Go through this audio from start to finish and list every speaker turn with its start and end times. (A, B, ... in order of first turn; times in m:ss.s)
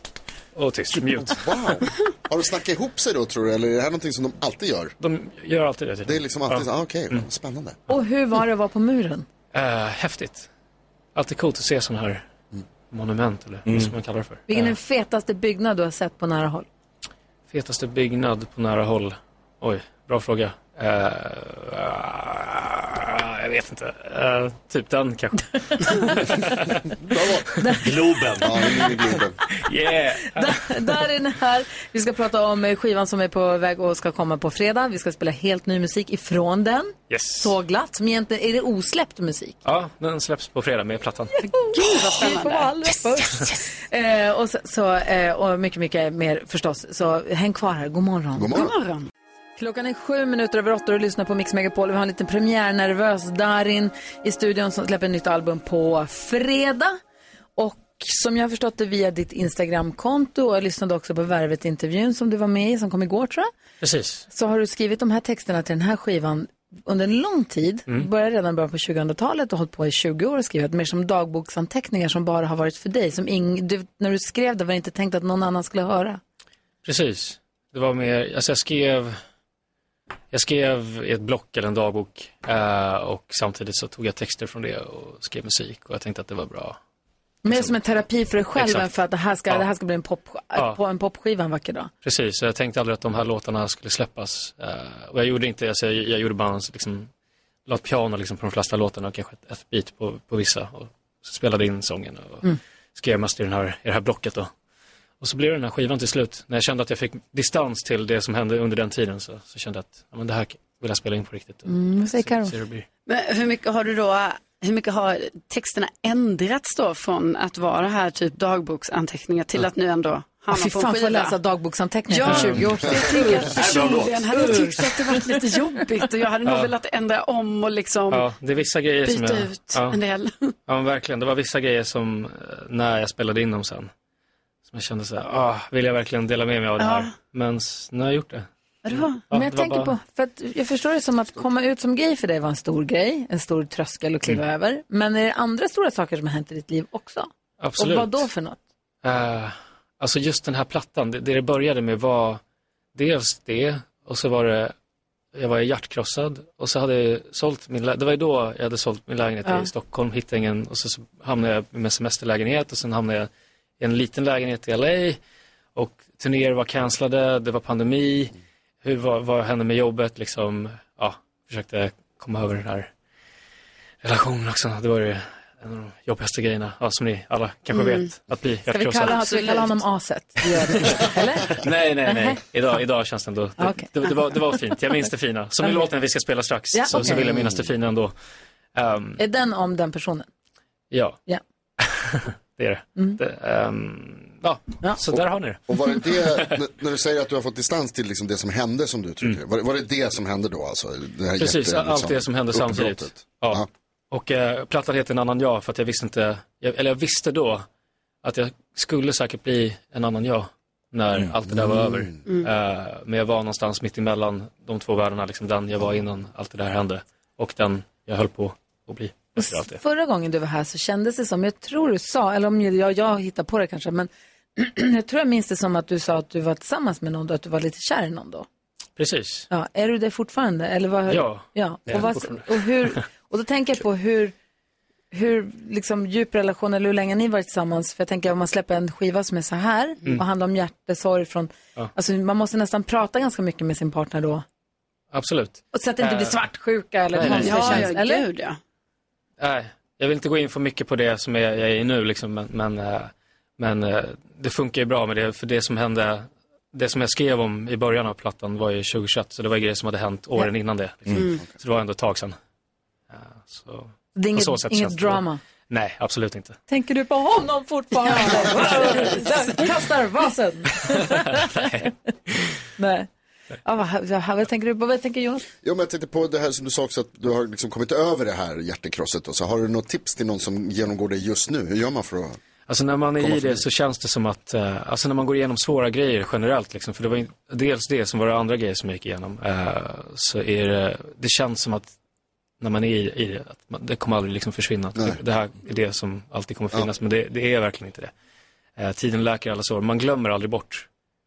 0:00.5-0:01.4 A
0:01.2-0:04.9 B
0:05.0-0:07.2 A
0:06.0-0:07.8 B
0:07.9-0:09.2 C
0:09.5-0:10.5 A
0:11.1-0:12.2 A
0:12.9-0:14.7 A
0:13.6-0:14.0 D
0:14.5-0:16.7 C
0:17.5-0:26.9 A
0:25.7-0:26.3 C
0:27.0-0:27.6 B
0:27.6-0:27.9 C
0:27.8-0:28.9 D
0:28.4-0:29.4 B
0:28.4-0:29.2 C
0:29.6-0:31.0 A
0:30.2-0:39.6 C
0:37.1-0:37.5 A
0:39.6-0:41.4 A
0:41.3-0:48.6 C
0:41.7-0:42.8 E
0:48.3-0:48.7 B
0:48.5-0:49.1 E
0:49.6-0:57.0 C
0:57.6-1:03.5 C
1:03.8-1:04.2 A
1:04.3-1:16.2 C
1:16.8-1:19.2 A
1:20.3-1:26.8 A
1:27.4-1:31.9 C
1:27.5-1:27.8 A
1:28.5-1:29.0 A
1:32.0-1:37.1 A
1:37.7-1:44.5 A
1:45.2-1:52.8 A
1:51.6-1:52.6 C
1:53.1-2:01.4 E
2:00.5-2:03.8 C
2:02.1-2:08.3 E
2:02.2-2:02.9 A
2:03.5-2:04.4 D
2:04.3-2:05.4 C
2:06.4-2:06.7 A
2:08.1-2:10.0 A
2:09.0-2:10.5 E
2:10.7-2:13.9 A
2:14.6-2:19.9 A
2:16.8-2:17.1 E
2:18.8-2:19.2 E
2:19.3-2:28.6 C
2:27.6-2:28.2 A
2:29.0-2:32.4 A
2:32.9-2:34.7 A
2:35.3-2:45.2 A
2:39.4-2:39.7 C
2:45.7-2:52.9 A
2:54.0-2:59.2 A
2:57.7-2:58.1 E
2:58.6-3:01.5 C
2:59.0-2:59.8 E
3:00.7-3:08.1 A
3:02.0-3:02.4 C
3:03.6-3:04.5 C
3:05.6-3:05.9 C
3:06.7-3:07.3 C
3:07.2-3:07.6 B
3:08.7-3:09.2 A
3:09.2-3:10.3 C
3:10.9-3:11.2 A
3:11.8-3:16.6 A
3:15.2-3:23.7 B
3:21.4-3:27.6 A
3:28.2-3:39.8 A
3:31.7-3:32.2 B
3:39.4-3:48.4 C
3:49.0-3:49.5 A
3:49.5-3:54.3 C
3:51.1-3:53.0 A
3:55.1-4:04.4 C
4:05.1-4:06.4 A
4:05.7-4:08.2 C
4:07.1-4:07.9 A
4:07.2-4:08.6 E
4:09.4-4:22.4 A
4:23.1-4:26.6 A
4:24.1-4:25.4 C
4:26.7-4:31.9 C
4:30.9-4:31.9 A
4:32.8-4:33.1 C
4:33.6-4:35.4 C
4:35.6-4:42.4 B
4:42.7-4:51.9 A
4:43.2-4:43.6 B
4:52.6-4:58.1 A
4:58.8-5:00.8 A